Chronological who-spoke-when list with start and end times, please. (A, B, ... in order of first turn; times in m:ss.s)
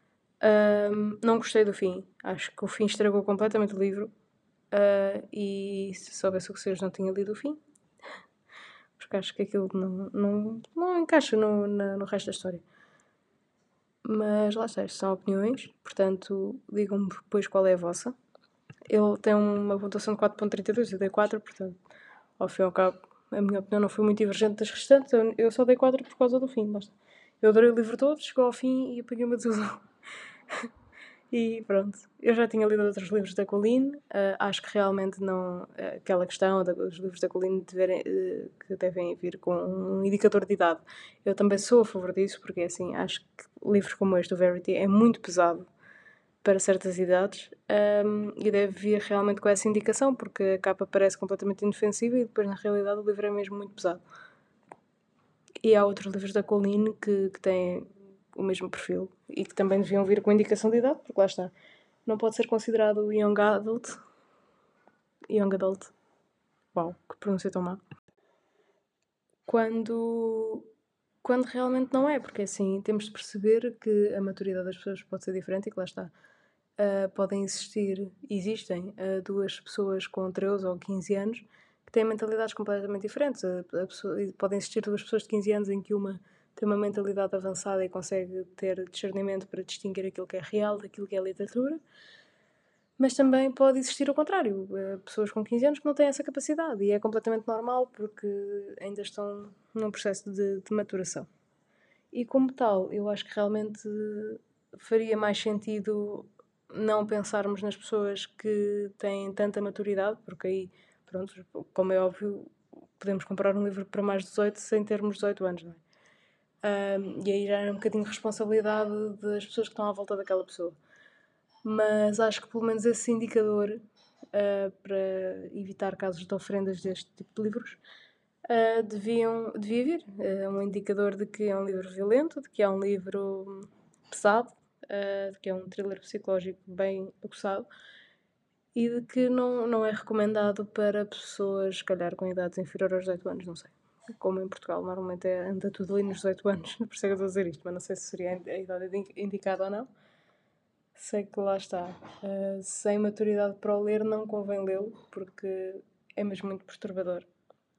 0:00.4-0:04.1 A
0:04.7-0:07.6 A
0:09.0-0:12.6 A
0:14.0-0:18.1 A
0:18.9-0:21.8 A
0:22.4-0:29.8 A
0:31.3-0:45.7 A
0:46.4-0:54.0 A
0:55.6-1:01.5 A
1:02.0-1:04.0 A
1:05.3-1:05.9 A
1:06.7-1:07.8 A
1:09.4-1:10.7 A
1:11.2-1:16.1 A
1:16.8-1:31.8 A
1:33.0-1:41.3 A
1:42.1-1:55.8 A
1:56.6-2:00.8 A
2:01.6-2:03.8 A
2:04.3-2:07.8 A
2:08.5-2:17.7 A
2:18.7-2:29.9 A
2:31.0-2:37.3 A